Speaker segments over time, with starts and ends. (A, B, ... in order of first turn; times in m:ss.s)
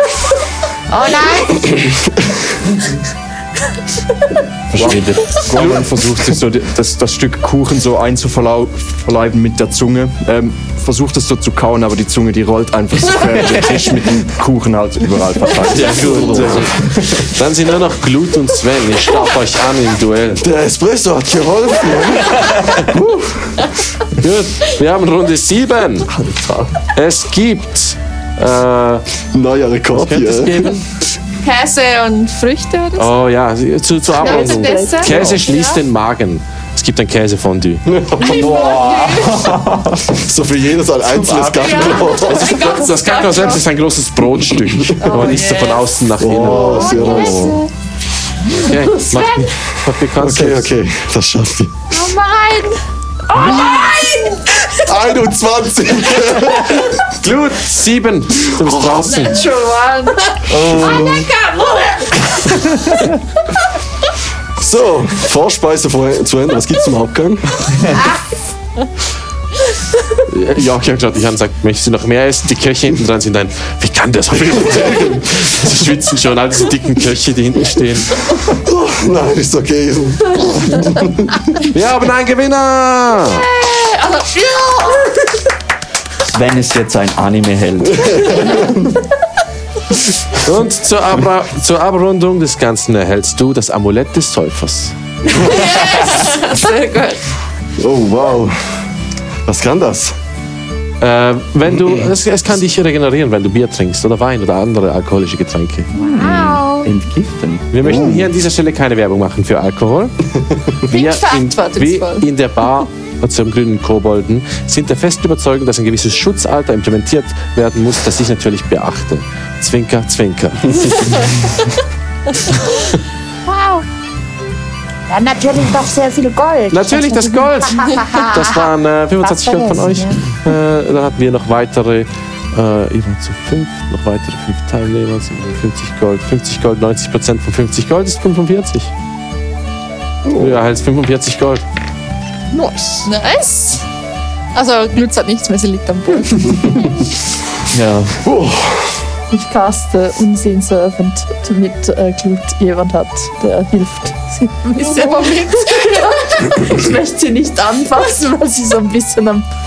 0:00.9-0:01.7 A
0:01.6-0:02.4 B
0:04.7-0:16.8 C
0:04.7-0:05.2 D
0:15.7-0:20.4 E
0:20.4-0:23.7 B
0:24.1-0:26.1 E
0:26.2-0:26.7 B
0:26.9-0:29.0 E
0:29.3-0:30.7 B
0:29.9-0:30.8 E
0:31.4-0:33.3 F
0:33.0-0:37.8 E
0:34.2-0:35.8 F
0:34.2-0:35.3 G
0:37.9-0:38.7 B
0:38.2-0:39.5 F
0:38.3-0:40.0 D
0:40.0-0:42.6 B
0:41.4-0:43.6 F
0:42.3-0:47.1 E
0:45.0-0:45.9 F
0:46.2-0:47.6 B
0:46.4-0:47.7 F
0:48.5-0:50.7 E
0:48.8-0:49.5 F
0:50.2-0:51.8 B
0:51.9-0:54.8 F
0:54.8-0:57.0 B
0:57.1-0:59.4 E
0:58.6-0:59.0 B
0:59.0-1:02.6 F
1:00.5-1:01.3 D
1:04.6-1:07.9 B
1:10.2-1:18.3 E
1:14.7-1:15.2 B
1:18.5-1:21.5 B
1:21.7-1:23.5 E
1:23.3-1:25.3 F
1:26.2-1:28.5 D
1:28.4-1:28.8 B
1:30.4-1:34.9 E
1:35.3-1:37.2 F
1:37.8-1:38.8 B
1:39.4-1:40.1 B
1:41.0-1:45.9 E
1:45.9-1:48.3 D
1:46.0-1:46.9 F
1:47.7-1:50.2 E
1:50.8-2:01.3 E
1:50.9-1:52.3 F
2:03.4-2:03.8 A
2:05.1-2:10.2 A
2:06.7-2:18.9 E
2:20.2-2:20.6 B
2:20.4-2:21.6 E
2:22.6-2:23.8 F
2:22.7-2:23.0 G
2:24.5-2:26.9 F
2:27.7-2:28.2 D
2:28.2-2:29.0 B
2:29.3-2:39.5 G
2:34.8-2:36.2 F